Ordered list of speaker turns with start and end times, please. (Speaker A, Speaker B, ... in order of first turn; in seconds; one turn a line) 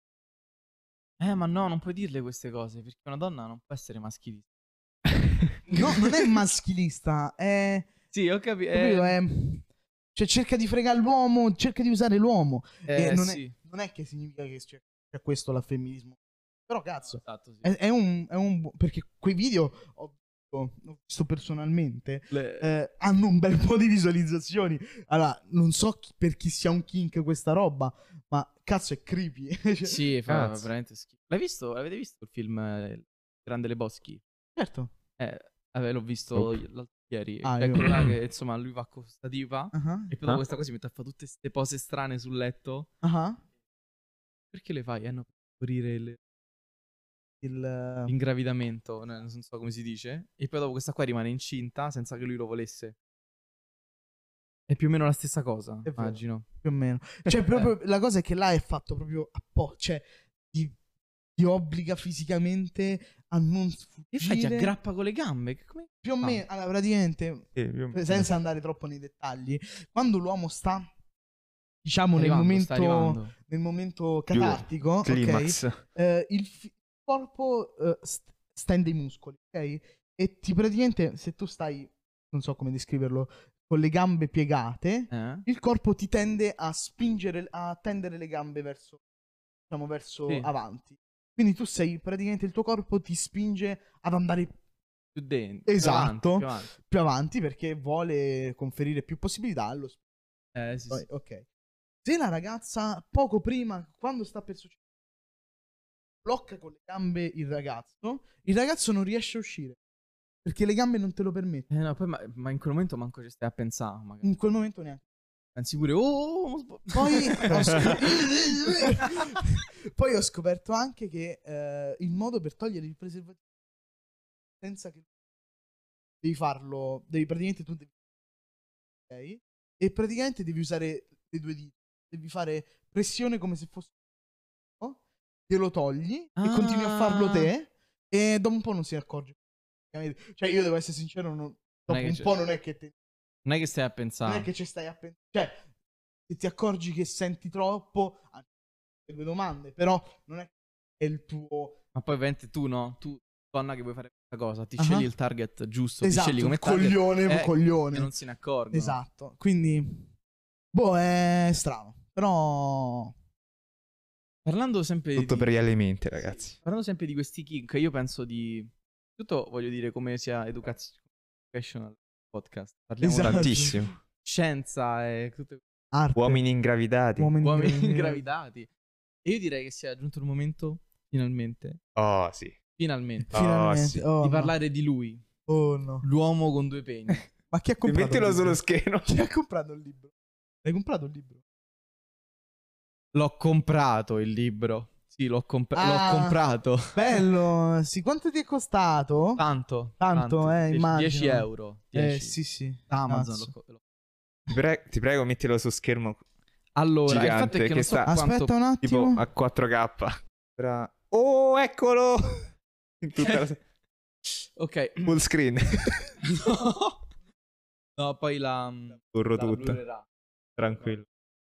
Speaker A: 1.2-4.5
Speaker B: 5.7-7.9
Speaker A: 5.7-6.0
Speaker A: 8.1-9.2
Speaker B: 8.7-30.0
Speaker A: 12.9-13.5
Speaker A: 17.2-17.7
Speaker A: 22.3-22.7
Speaker A: 29.8-34.2
Speaker C: 30.3-30.7
Speaker B: 34.5-34.9
Speaker A: 35.2-42.9
Speaker B: 37.4-37.9
Speaker B: 39.7-40.1
Speaker B: 43.0-43.4
Speaker A: 44.5-46.2
Speaker B: 47.4-48.1
Speaker A: 48.1-53.0
Speaker A: 54.7-56.5
Speaker B: 55.9-60.8
Speaker B: 61.4-64.7
Speaker A: 64.1-66.4
Speaker B: 66.0-70.9
Speaker C: 67.6-68.3
Speaker B: 71.8-89.0
Speaker A: 72.2-73.3
Speaker C: 74.3-75.8
Speaker A: 85.1-85.5
Speaker B: 89.7-94.5
Speaker A: 95.1-96.7
Speaker B: 95.7-100.0
Speaker A: 100.5-101.1
Speaker B: 100.9-101.5
Speaker B: 102.0-104.8
Speaker B: 106.2-109.8
Speaker B: 110.4-111.7
Speaker A: 111.7-114.3
Speaker B: 114.2-115.0
Speaker A: 115.5-118.0
Speaker B: 116.9-123.4
Speaker B: 124.6-125.0
Speaker B: 126.2-127.9
Speaker B: 129.1-133.9
Speaker B: 134.8-139.4
Speaker A: 136.4-137.5
Speaker B: 139.9-142.9
Speaker A: 141.9-142.3
Speaker A: 143.4-144.5
Speaker B: 144.2-145.6
Speaker B: 146.3-148.5
Speaker B: 149.1-151.8
Speaker A: 151.9-159.0
Speaker B: 154.8-155.1
Speaker B: 156.0-158.1
Speaker B: 158.7-160.1
Speaker B: 160.7-163.1
Speaker A: 164.4-165.5
Speaker C: 165.2-166.6
Speaker A: 166.6-171.0
Speaker A: 171.5-175.6
Speaker B: 173.0-173.8
Speaker C: 173.2-173.9
Speaker B: 175.9-176.4
Speaker C: 176.2-177.3
Speaker B: 177.2-178.2
Speaker A: 177.4-178.7
Speaker A: 179.2-181.8
Speaker C: 181.9-182.6
Speaker A: 182.8-183.3
Speaker C: 183.3-184.0
Speaker B: 183.3-184.5
Speaker A: 184.2-185.2
Speaker B: 185.5-186.0
Speaker A: 186.0-187.2
Speaker B: 187.5-190.1
Speaker C: 187.8-189.2
Speaker B: 190.6-191.4
Speaker A: 193.1-197.0
Speaker B: 195.7-196.4
Speaker B: 196.9-199.4
Speaker A: 199.4-202.3
Speaker B: 200.0-203.5
Speaker A: 202.9-203.8
Speaker C: 204.5-206.2
Speaker A: 206.8-208.5
Speaker C: 207.1-208.1
Speaker B: 207.9-209.2
Speaker C: 208.8-212.4
Speaker C: 213.0-213.6
Speaker A: 214.6-215.1
Speaker C: 215.0-216.1
Speaker A: 216.2-217.0
Speaker A: 218.0-220.1
Speaker C: 219.1-219.8
Speaker C: 220.6-221.0